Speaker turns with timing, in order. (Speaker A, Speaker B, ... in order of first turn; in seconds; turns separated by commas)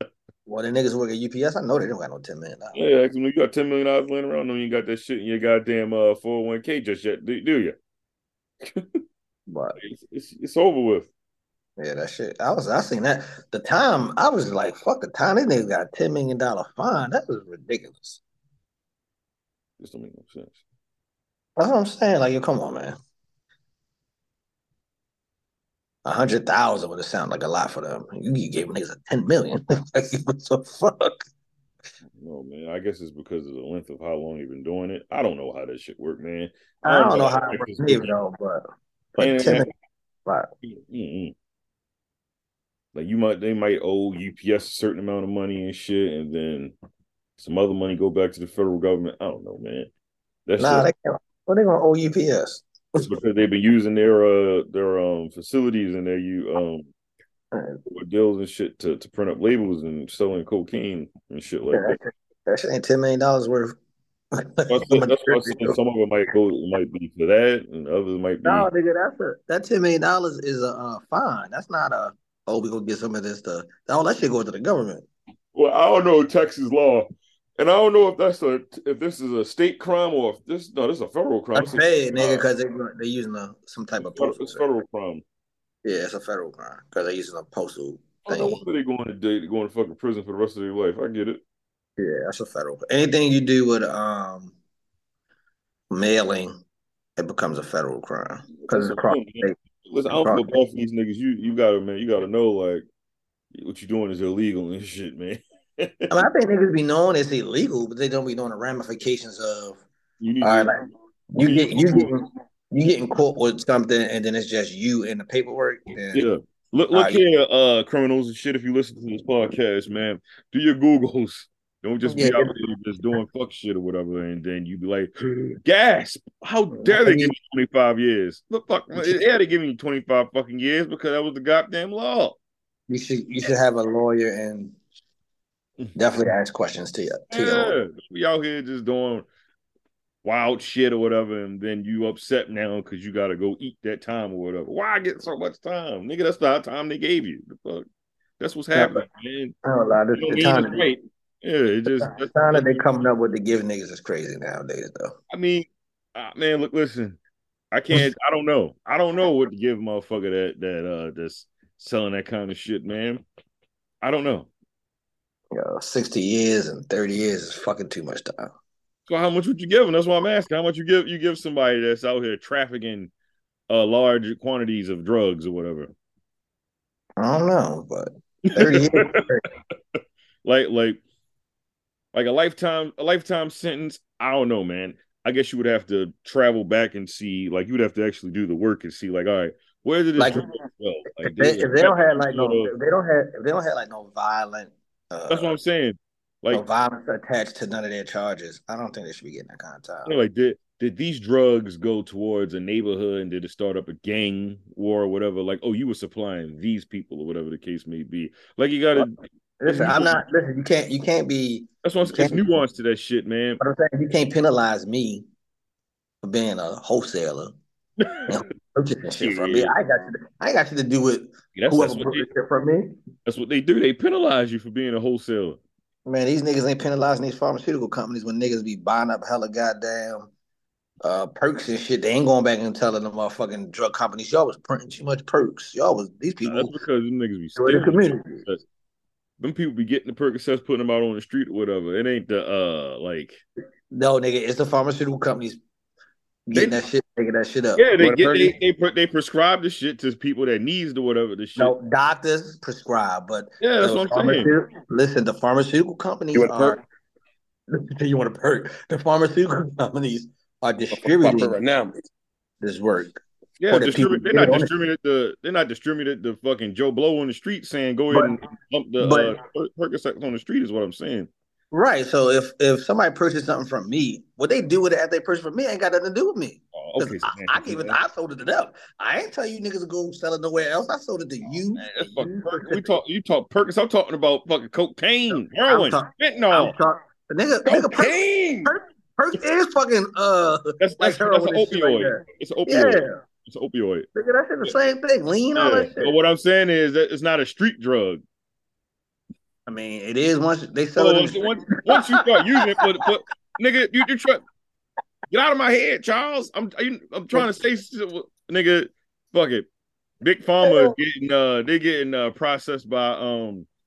Speaker A: 0.5-2.8, Speaker B: 2.7-7.7, Speaker B: 8.6-9.0, Speaker A: 9.5-9.8, Speaker B: 9.8-11.1, Speaker A: 11.8-18.2, Speaker B: 19.8-20.6, Speaker A: 21.6-22.9, Speaker A: 26.0-31.2, Speaker B: 32.2-38.1, Speaker A: 36.9-39.7, Speaker B: 39.2-39.7, Speaker B: 40.6-41.3, Speaker B: 42.9-46.7, Speaker B: 47.4-49.9, Speaker B: 50.5-50.9, Speaker A: 50.6-52.6, Speaker B: 53.0-56.9, Speaker A: 57.5-57.8, Speaker B: 57.9-62.0, Speaker A: 61.7-63.7, Speaker A: 64.3-65.8, Speaker B: 64.7-68.7, Speaker A: 68.4-75.1, Speaker B: 75.5-82.5, Speaker A: 81.5-84.7, Speaker B: 84.0-85.2, Speaker A: 85.8-88.6, Speaker B: 88.2-91.4, Speaker A: 92.0-94.5, Speaker A: 95.9-96.5, Speaker A: 97.2-99.5, Speaker B: 98.6-102.8, Speaker A: 100.1-100.5, Speaker B: 103.5-106.2, Speaker A: 106.1-109.8, Speaker B: 110.2-112.1, Speaker A: 110.4-110.8, Speaker A: 111.3-116.2, Speaker B: 116.1-132.4, Speaker A: 116.9-117.2, Speaker A: 122.1-122.5, Speaker A: 126.8-127.3, Speaker A: 128.9-129.2, Speaker A: 132.9-134.8, Speaker A: 135.9-137.8, Speaker B: 137.3-139.2, Speaker B: 140.2-147.9, Speaker B: 148.4-149.6, Speaker A: 148.7-149.0, Speaker A: 149.6-150.9, Speaker B: 150.1-152.9, Speaker A: 152.0-155.1, Speaker B: 155.3-157.2, Speaker B: 157.7-163.2, Speaker B: 164.0-164.5, Speaker A: 165.5-168.5, Speaker B: 169.1-173.1, Speaker B: 173.7-175.9, Speaker A: 177.2-179.4, Speaker B: 178.4-179.2, Speaker B: 180.4-181.0, Speaker B: 182.1-192.7, Speaker A: 190.2-190.4, Speaker A: 191.2-195.6, Speaker B: 195.3-196.6, Speaker A: 196.5-200.1, Speaker B: 200.0-210.2, Speaker A: 209.6-212.4, Speaker B: 211.8-213.6, Speaker A: 213.6-215.2, Speaker A: 216.2-217.5, Speaker B: 218.0-218.4, Speaker A: 218.3-222.9, Speaker B: 219.2-219.7, Speaker B: 221.5-222.2, Speaker B: 223.2-225.6, Speaker A: 226.1-230.3, Speaker A: 231.0-236.7, Speaker B: 236.4-238.6, Speaker A: 237.6-238.4, Speaker B: 239.4-243.4, Speaker A: 243.9-245.6, Speaker A: 246.5-248.5, Speaker B: 246.5-246.8, Speaker B: 247.8-251.8, Speaker A: 251.6-256.8, Speaker B: 253.6-254.5, Speaker C: 256.3-256.8, Speaker A: 257.7-261.6, Speaker C: 261.0-261.9, Speaker A: 262.6-263.2, Speaker B: 263.6-271.3, Speaker A: 263.7-264.7, Speaker A: 269.0-269.4, Speaker A: 271.7-282.9, Speaker B: 276.7-278.0, Speaker B: 281.8-286.7, Speaker A: 285.3-293.2, Speaker C: 287.6-288.7, Speaker B: 290.8-294.1, Speaker A: 294.1-296.1, Speaker B: 295.5-298.2, Speaker A: 299.7-302.8, Speaker B: 300.9-304.4, Speaker B: 305.3-309.7, Speaker B: 310.2-313.7, Speaker A: 310.6-310.9